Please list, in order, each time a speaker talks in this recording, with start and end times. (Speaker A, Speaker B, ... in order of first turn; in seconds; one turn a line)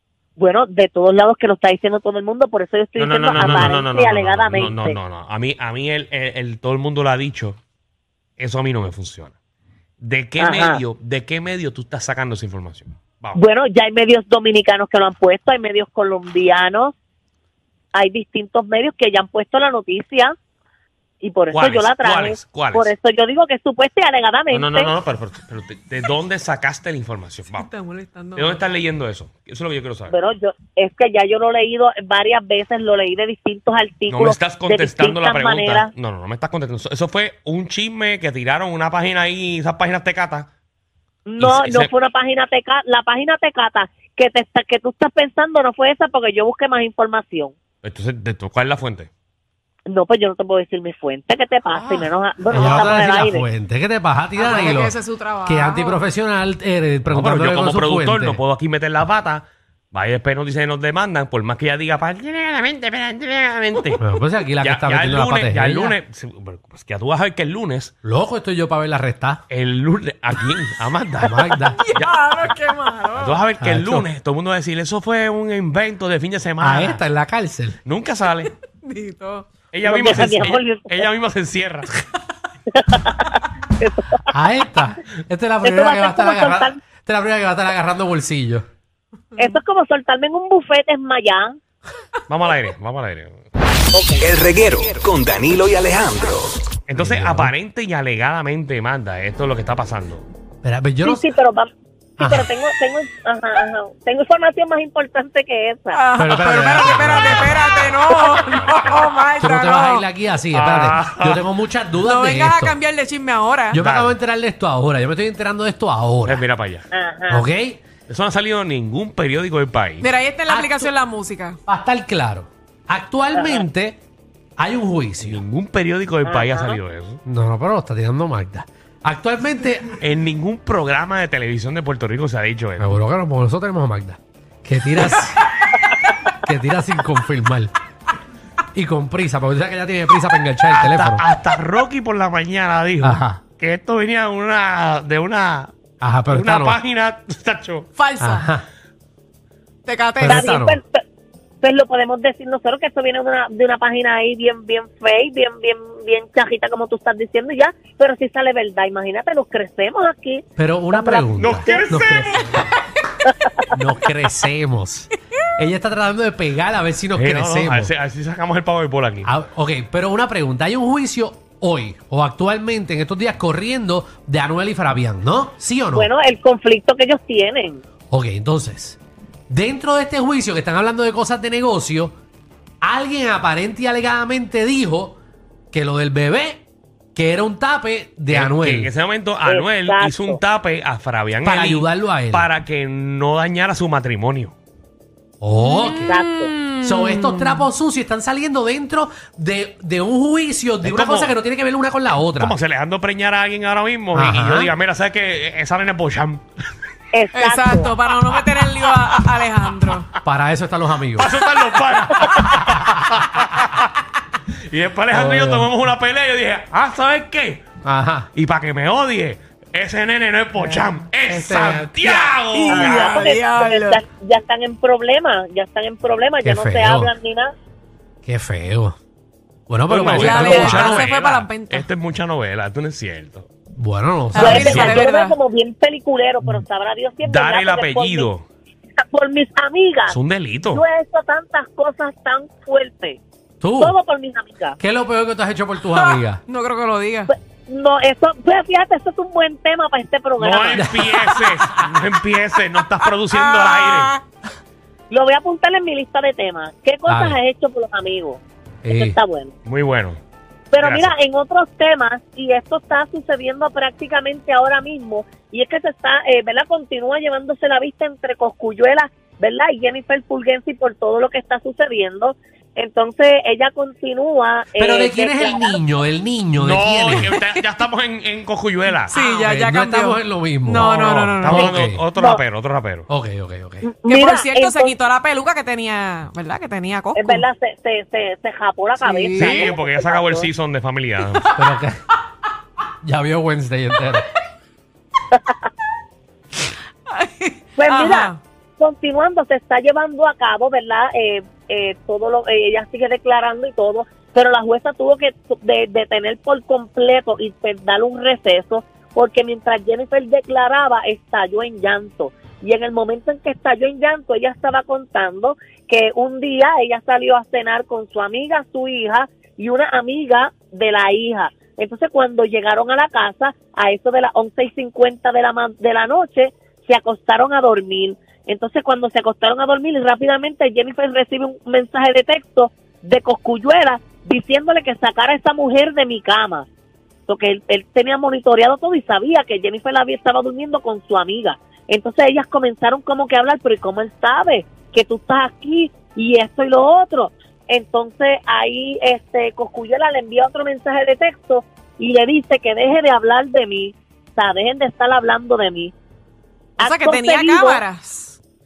Speaker A: 0.4-5.0
Speaker B: 3.0-7.6
Speaker C: 3.4-3.6
Speaker B: 8.4-9.3
Speaker B: 10.0-13.4
Speaker A: 10.4-10.8
Speaker A: 13.3-16.9
Speaker A: 17.9-20.4
Speaker A: 21.2-24.9
Speaker B: 21.5-22.9
Speaker B: 24.5-27.7
Speaker D: 27.5-28.6
Speaker B: 28.4-30.1
Speaker A: 30.1-35.9
Speaker B: 34.1-40.5
Speaker A: 41.3-47.5
Speaker B: 41.4-41.9
Speaker B: 47.8-49.1
Speaker A: 49.9-53.5
Speaker D: 51.7-52.1
Speaker C: 52.5-58.4
Speaker D: 54.4-56.0
Speaker B: 57.1-64.0
Speaker C: 64.0-66.0
Speaker B: 64.6-67.9
Speaker C: 68.0-69.4
Speaker B: 69.5-71.4
Speaker C: 71.2-71.8
Speaker D: 71.5-73.4
Speaker B: 73.2-77.0
Speaker C: 73.6-74.1
Speaker C: 76.6-77.8
Speaker B: 77.9-78.5
Speaker D: 78.7-79.5
Speaker B: 79.7-81.9
Speaker A: 79.8-81.1
Speaker A: 82.8-84.3
Speaker C: 84.3-88.7
Speaker A: 85.6-86.8
Speaker A: 89.4-91.6
Speaker B: 92.3-93.4
Speaker A: 93.9-94.3
Speaker E: 94.2-96.5
Speaker B: 96.9-100.2
Speaker C: 97.0-97.5
Speaker C: 100.6-101.3
Speaker A: 101.0-106.0
Speaker C: 102.2-102.5
Speaker D: 105.9-110.0
Speaker C: 106.2-107.9
Speaker B: 107.0-109.0
Speaker C: 108.9-112.8
Speaker B: 110.5-111.4
Speaker D: 112.0-113.8
Speaker C: 113.7-116.4
Speaker B: 113.8-114.2
Speaker B: 116.3-116.9
Speaker A: 116.9-117.4
Speaker C: 117.3-117.8
Speaker B: 118.1-120.1
Speaker D: 120.0-121.6
Speaker C: 120.5-120.9
Speaker C: 121.7-124.0
Speaker A: 123.3-123.7
Speaker C: 124.6-125.4
Speaker B: 125.3-127.2
Speaker A: 126.2-126.8
Speaker C: 127.3-129.9
Speaker B: 130.0-132.9
Speaker C: 132.8-135.4
Speaker C: 136.4-137.7
Speaker C: 138.8-141.2
Speaker B: 140.7-145.7
Speaker C: 143.0-143.4
Speaker C: 146.0-146.8
Speaker B: 146.3-147.9
Speaker D: 148.0-148.5
Speaker C: 148.2-148.7
Speaker D: 149.9-150.4
Speaker C: 150.2-150.8
Speaker A: 150.3-151.0
Speaker A: 151.6-162.0
Speaker C: 160.6-162.7
Speaker B: 161.4-162.5
Speaker C: 163.7-167.9
Speaker B: 167.2-169.3
Speaker C: 169.2-176.1
Speaker A: 175.9-177.8
Speaker C: 178.1-179.0
Speaker C: 179.5-182.1
Speaker C: 182.8-185.2
Speaker C: 185.7-186.6
Speaker C: 187.2-188.9
Speaker B: 188.3-194.5
Speaker A: 189.5-190.4
Speaker C: 191.4-192.5
Speaker C: 195.4-196.2
Speaker D: 195.6-197.7
Speaker A: 196.1-196.5
Speaker C: 196.8-202.6
Speaker B: 200.8-201.3
Speaker B: 202.4-206.4
Speaker C: 204.1-204.7
Speaker A: 207.1-207.9
Speaker D: 207.3-210.1
Speaker C: 210.2-211.3
Speaker B: 211.2-213.8
Speaker B: 214.7-217.6
Speaker C: 215.1-215.7
Speaker C: 217.8-218.3
Speaker B: 218.3-223.1
Speaker C: 221.2-222.3
Speaker D: 222.0-224.0
Speaker A: 222.7-227.5
Speaker C: 226.4-227.1
Speaker C: 228.2-229.0
Speaker C: 229.7-231.1
Speaker B: 229.9-233.5
Speaker D: 230.1-231.9
Speaker C: 233.8-235.1
Speaker D: 234.3-235.4
Speaker A: 234.4-238.3
Speaker B: 237.3-238.4
Speaker A: 239.0-240.2
Speaker B: 240.1-240.8
Speaker A: 240.7-243.2
Speaker C: 243.6-244.0
Speaker A: 243.8-244.8
Speaker C: 244.8-246.4
Speaker D: 245.9-247.3
Speaker A: 247.3-251.0
Speaker B: 250.4-254.1
Speaker C: 250.7-251.5
Speaker D: 252.6-254.2
Speaker A: 255.1-259.5
Speaker C: 257.1-257.4
Speaker C: 258.8-259.2
Speaker B: 259.7-260.2
Speaker A: 260.7-275.8
Speaker B: 260.8-261.1
Speaker C: 274.8-277.4
Speaker B: 276.6-279.1
Speaker D: 279.1-281.8
Speaker C: 279.2-282.1
Speaker B: 280.8-283.1
Speaker A: 282.2-282.4
Speaker C: 283.1-283.9
Speaker A: 283.8-284.9
Speaker D: 284.1-287.4
Speaker A: 287.1-290.5
Speaker D: 289.0-289.8
Speaker B: 289.4-291.4
Speaker C: 291.5-292.0
Speaker C: 293.0-294.3
Speaker D: 297.1-298.4
Speaker A: 297.8-336.7
Speaker A: 337.3-355.9
Speaker A: 356.8-357.8
Speaker D: 356.8-358.4